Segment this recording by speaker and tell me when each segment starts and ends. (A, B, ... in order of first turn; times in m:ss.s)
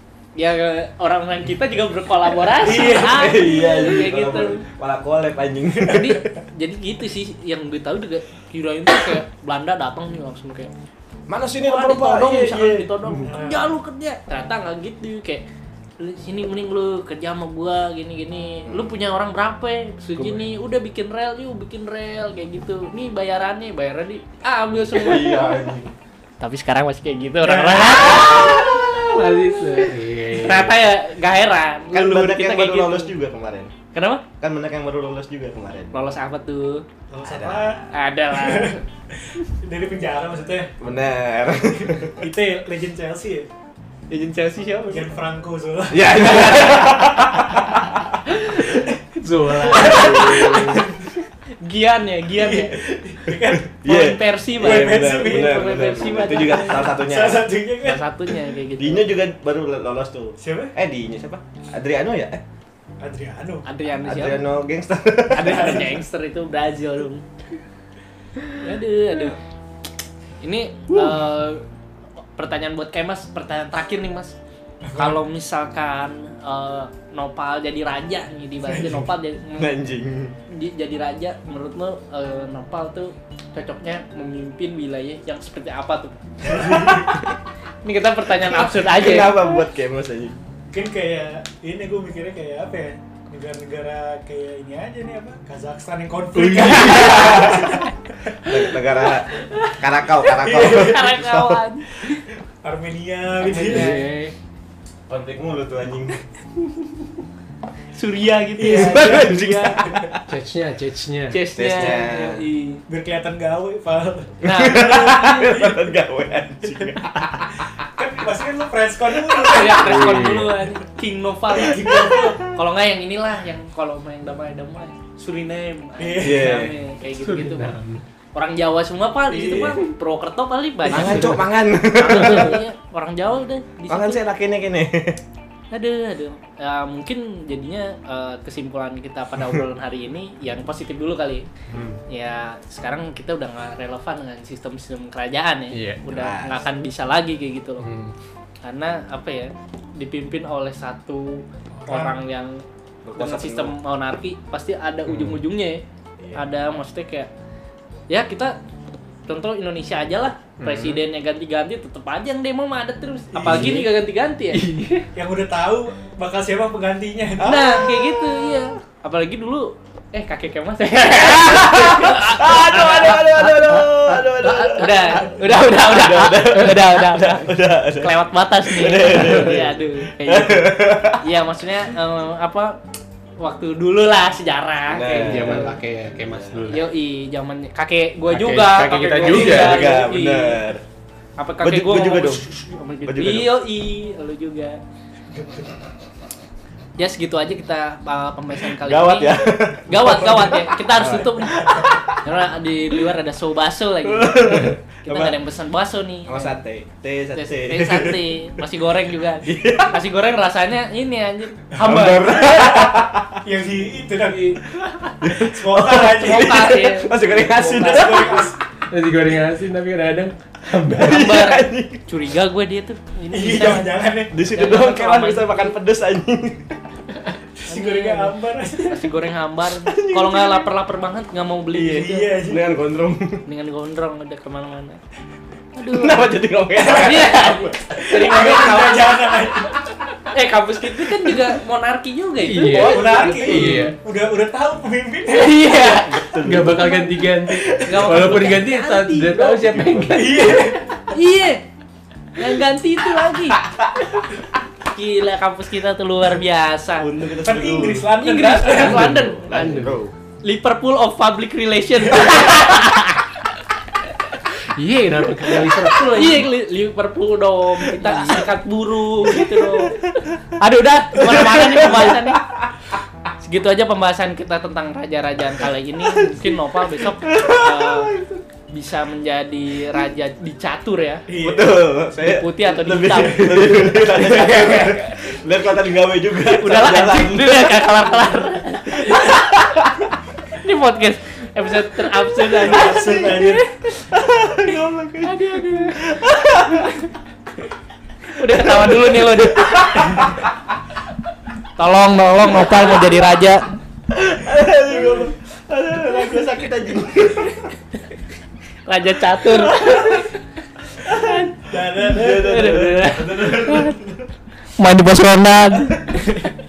0:00.4-0:04.6 A
0:02.6-0:03.8 B
0:02.6-0:06.2 C
0:05.8-0:10.7 A
0:11.3-0:12.9 C
0:11.6-0:15.4 A
0:13.2-0:13.6 B
0:16.0-0:25.7 A
0:24.9-0:25.9 C
0:26.4-0:28.9 A
0:27.4-0:28.1 B
0:27.9-0:28.8 C
0:28.8-0:30.8 D
0:30.3-0:33.1 A
0:31.9-0:33.7 C
0:33.9-0:34.2 A
0:34.4-0:35.9 C
0:35.9-0:36.8 A
0:37.1-0:40.8 B
0:37.2-0:37.8 C
0:37.9-0:38.8 A
0:40.8-0:42.2 C
0:41.8-0:43.5 B
0:44.1-0:45.1 A
0:44.9-0:46.8 B
0:45.9-0:47.7 C
0:48.6-0:50.9 B
0:49.2-0:50.8 D
0:49.7-0:50.6 A
0:49.8-0:50.9 C
0:51.6-0:52.8 A
0:52.4-0:53.7 B
0:53.8-0:57.5 C
0:53.8-0:57.0 A
0:54.6-0:58.0 B
0:57.8-0:59.1 A
0:58.8-1:02.4 C
1:00.4-1:00.8 B
1:03.0-1:03.7 B
1:03.6-1:04.5 A
1:04.0-1:05.9 C
1:05.3-1:07.2 A
1:05.4-1:05.9 B
1:08.6-1:09.4 A
1:10.4-1:11.6 A
1:12.4-1:14.4 A
1:14.8-1:15.2 B
1:15.0-1:19.8 A
1:18.7-1:19.1 B
1:19.6-1:20.4 C
1:20.5-1:26.1 A
1:26.4-1:27.2 B
1:26.7-1:27.2 C
1:27.8-1:29.4 A
1:28.5-1:30.4 C
1:30.7-1:38.0 B
1:36.4-1:37.4 D
1:36.9-1:37.8 C
1:38.5-1:41.6 C
1:40.4-1:41.2 B
1:40.5-1:42.2 A
1:42.6-1:44.1 B
1:43.4-1:44.3 D
1:45.1-1:46.2 C
1:47.9-1:49.4 A
1:48.6-1:50.1 B
1:48.7-1:50.2 C
1:50.3-1:51.9 D
1:51.3-1:52.8 A
1:51.6-1:52.4 C
1:52.9-1:55.8 B
1:54.4-1:55.3 A
1:54.4-1:57.6 C
1:58.0-2:00.2 B
1:59.3-2:01.9 A
1:59.8-2:00.6 D
2:01.5-2:02.4 B
2:01.9-2:02.4 C
2:02.5-2:07.7 A
2:06.0-2:06.6 B
2:06.2-2:06.7 C
2:07.1-2:08.0 D
2:08.3-2:14.2 A
2:09.3-2:09.7 B
2:09.3-2:09.8 C
2:10.9-2:12.6 C
2:10.9-2:11.4 D
2:12.1-2:12.5 D
2:13.9-2:15.2 C
2:15.7-2:21.5 A
2:21.7-2:22.0 D
2:22.1-2:27.9 A
2:25.7-2:26.1 D
2:26.1-2:26.7 C
2:27.8-2:28.1 D
2:28.6-2:32.6 A
2:31.8-2:32.2 B
2:33.0-2:33.8 C
2:33.2-2:35.8 A
2:35.1-2:35.4 D
2:36.3-2:37.3 A
2:38.1-2:38.5 A
2:39.3-2:44.6 A
2:40.6-2:41.0 D
2:43.3-2:43.8 B
2:43.5-2:43.9 D
2:44.5-2:45.1 D
2:45.2-2:48.2 B
2:47.4-2:48.6 C
2:47.4-2:53.5 A
2:51.1-3:01.2 C
2:53.6-2:54.8 D
2:54.4-3:02.7 A
2:59.2-2:59.5 D
3:03.4-3:05.8 A
3:04.9-3:06.8 C
3:05.1-3:06.8 D
3:06.7-3:10.6 A
3:08.3-3:09.9 D
3:09.2-3:10.8 C
3:11.4-3:14.8 A
3:11.6-3:12.5 C
3:13.0-3:13.7 C
3:15.3-3:15.7 B
3:17.0-3:26.6 A
3:18.6-3:22.2 C
3:24.0-3:25.4 C
3:26.3-3:28.4 C
3:27.4-3:32.5 A
3:29.4-3:30.0 C
3:31.7-3:34.6 B
3:31.8-3:33.3 C
3:34.2-3:34.6 D
3:35.2-3:38.5 C
3:35.2-3:38.6 B
3:36.2-3:37.1 A
3:37.8-3:38.1 A
3:38.9-3:41.3 D
3:40.9-3:42.0 C
3:41.0-3:45.7 A
3:43.3-3:44.4 B
3:44.3-3:46.7 C
3:47.6-3:49.2 B
3:47.7-3:52.4 A
3:49.8-3:50.7 C
3:51.7-3:53.4 C
3:51.8-3:52.6 B
3:53.5-3:55.0 A
3:55.8-3:59.5 A
3:55.9-3:58.3 C
3:56.9-3:59.8 B
4:00.3-4:03.8 A
4:02.4-4:04.0 D
4:02.7-4:03.8 C
4:02.8-4:06.0 B
4:05.3-4:06.1 A
4:05.7-4:10.6 D
4:05.8-4:06.9 C
4:07.6-4:08.5 B
4:07.8-4:10.1 A
4:10.0-4:10.9 B
4:11.1-4:11.6 A
4:12.4-4:13.6 A
4:14.9-4:17.1 A
4:17.0-4:18.1 C
4:17.4-4:19.1 B
4:18.2-4:19.6 A
4:18.7-4:20.0 D
4:18.8-4:20.1 C
4:20.4-4:23.4 A
4:24.7-4:26.5 D
4:25.4-4:30.0 A
4:27.9-4:28.5 C
4:29.3-4:30.4 C
4:30.6-4:32.4 A
4:31.2-4:32.7 C
4:33.4-4:38.1 A
4:36.0-4:38.4 C
4:38.7-4:41.3 A
4:41.3-4:41.7 B
4:41.3-4:48.1 C
4:42.2-4:45.1 A
4:43.0-4:44.0 B
4:46.4-4:49.4 A
4:49.1-4:49.4 C
4:50.5-4:53.7 A
4:52.6-4:53.6 B
4:52.6-4:56.9 C
4:55.2-4:56.1 A
4:56.7-4:57.0 A
4:58.3-5:00.2 A
4:58.5-5:00.4 C
5:01.8-5:03.6 A
5:04.1-5:07.6 C
5:08.9-5:10.4 A
5:09.4-5:10.2 C
5:11.1-5:11.5 A
5:11.7-5:13.0 B
5:12.1-5:14.3 C
5:12.4-5:14.0 A
5:14.8-5:16.2 A